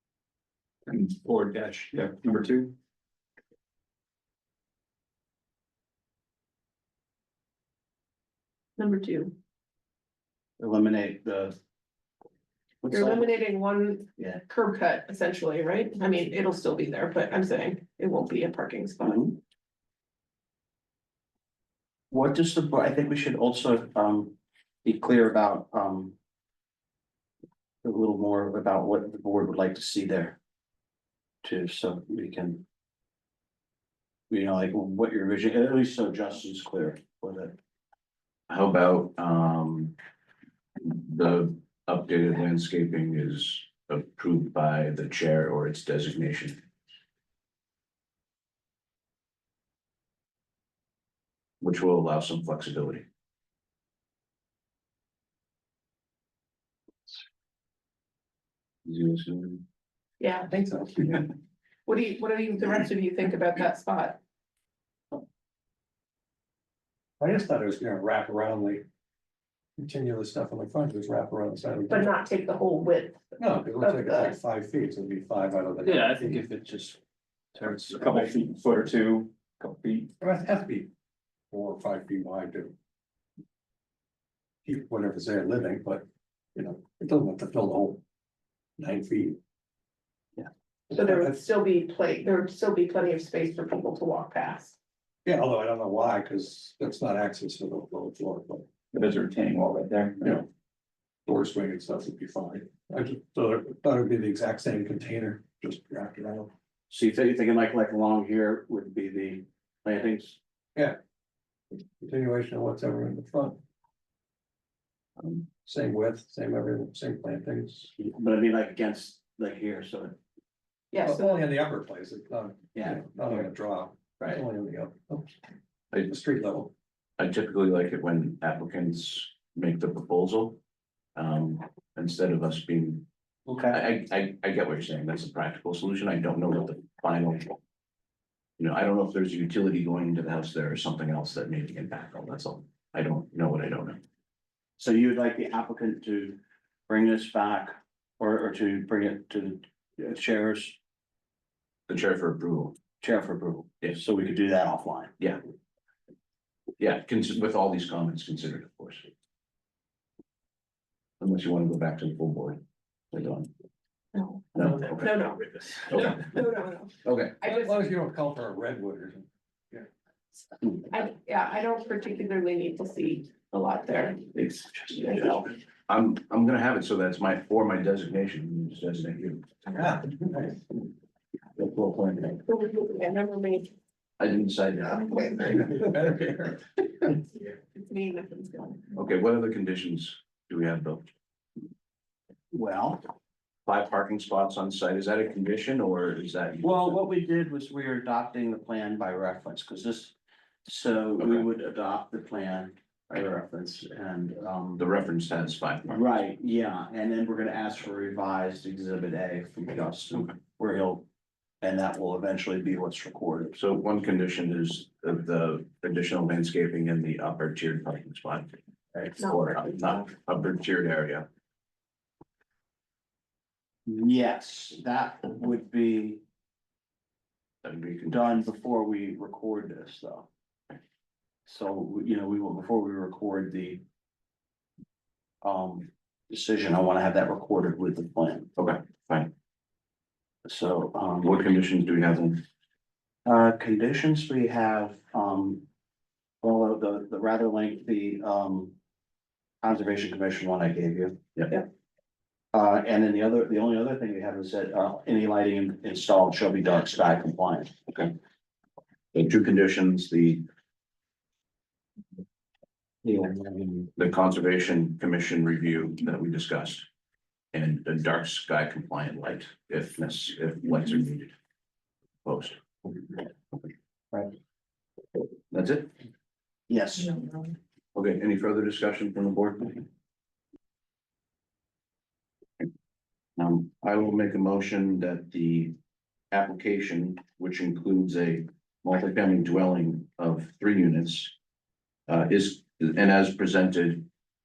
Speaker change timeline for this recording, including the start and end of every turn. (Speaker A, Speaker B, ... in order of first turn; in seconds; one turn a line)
Speaker A: 0.9-2.7
Speaker B: 8.8-9.3
Speaker C: 10.6-11.6
Speaker C: 12.8-13.3
Speaker B: 12.9-19.3
Speaker C: 19.0-19.4
Speaker C: 22.1-26.1
Speaker C: 27.8-30.4
Speaker C: 31.4-32.6
Speaker C: 34.3-37.5
Speaker D: 38.5-40.0
Speaker D: 40.8-46.6
Speaker D: 51.6-53.0
Speaker D: 58.9-59.6
Speaker B: 60.2-60.5
Speaker E: 60.5-61.2
Speaker B: 61.9-64.2
Speaker E: 67.2-68.8
Speaker E: 69.8-72.1
Speaker B: 71.9-74.4
Speaker E: 73.4-76.5
Speaker A: 75.8-77.0
Speaker A: 77.7-80.1
Speaker E: 80.2-80.9
Speaker E: 81.5-82.8
Speaker E: 84.6-88.0
Speaker E: 88.8-89.4
Speaker E: 90.9-91.4
Speaker B: 90.9-94.7
Speaker E: 95.2-98.7
Speaker A: 98.9-100.3
Speaker E: 100.2-100.5
Speaker E: 101.2-106.5
Speaker C: 106.9-110.4
Speaker E: 112.0-113.6
Speaker E: 115.6-117.9
Speaker C: 118.0-120.2
Speaker B: 120.9-121.3
Speaker E: 121.0-125.3
Speaker C: 122.7-123.4
Speaker E: 126.0-126.7
Speaker D: 127.2-130.6
Speaker D: 131.2-133.1
Speaker C: 133.5-133.8
Speaker D: 133.7-137.5
Speaker D: 138.6-144.0
Speaker C: 144.8-146.4
Speaker C: 146.9-150.8
Speaker D: 151.9-152.8
Speaker C: 153.0-155.1
Speaker D: 156.8-159.1
Speaker D: 161.2-163.5
Speaker B: 164.1-167.8
Speaker D: 164.5-165.2
Speaker D: 165.9-166.3
Speaker D: 167.0-167.4
Speaker E: 167.5-169.8
Speaker B: 170.7-175.5
Speaker D: 175.9-179.6
Speaker E: 179.7-180.6
Speaker D: 181.6-182.4
Speaker B: 182.4-183.7
Speaker D: 184.2-185.8
Speaker B: 185.0-185.7
Speaker E: 185.7-186.6
Speaker B: 186.8-188.9
Speaker D: 188.9-191.1
Speaker C: 192.5-193.0
Speaker D: 193.7-197.0
Speaker C: 196.6-200.1
Speaker C: 200.6-204.8
Speaker D: 204.8-206.1
Speaker C: 205.9-211.1
Speaker C: 211.6-213.6
Speaker D: 213.6-218.6
Speaker D: 219.1-221.3
Speaker B: 219.2-220.0
Speaker C: 223.9-226.2
Speaker D: 227.6-228.3
Speaker C: 228.1-230.3
Speaker C: 231.4-233.8
Speaker C: 235.4-238.5
Speaker D: 238.6-239.3
Speaker C: 240.4-241.4
Speaker D: 241.2-242.4
Speaker C: 243.2-245.6
Speaker C: 246.4-248.7
Speaker C: 249.6-251.2
Speaker C: 252.5-257.8
Speaker D: 259.1-260.4
Speaker C: 263.0-263.9
Speaker D: 263.9-266.9
Speaker D: 267.5-271.3
Speaker D: 272.2-272.6
Speaker D: 275.5-275.9
Speaker C: 276.7-277.3
Speaker D: 277.9-279.8
Speaker D: 283.4-285.8
Speaker D: 286.3-291.3
Speaker D: 292.1-294.1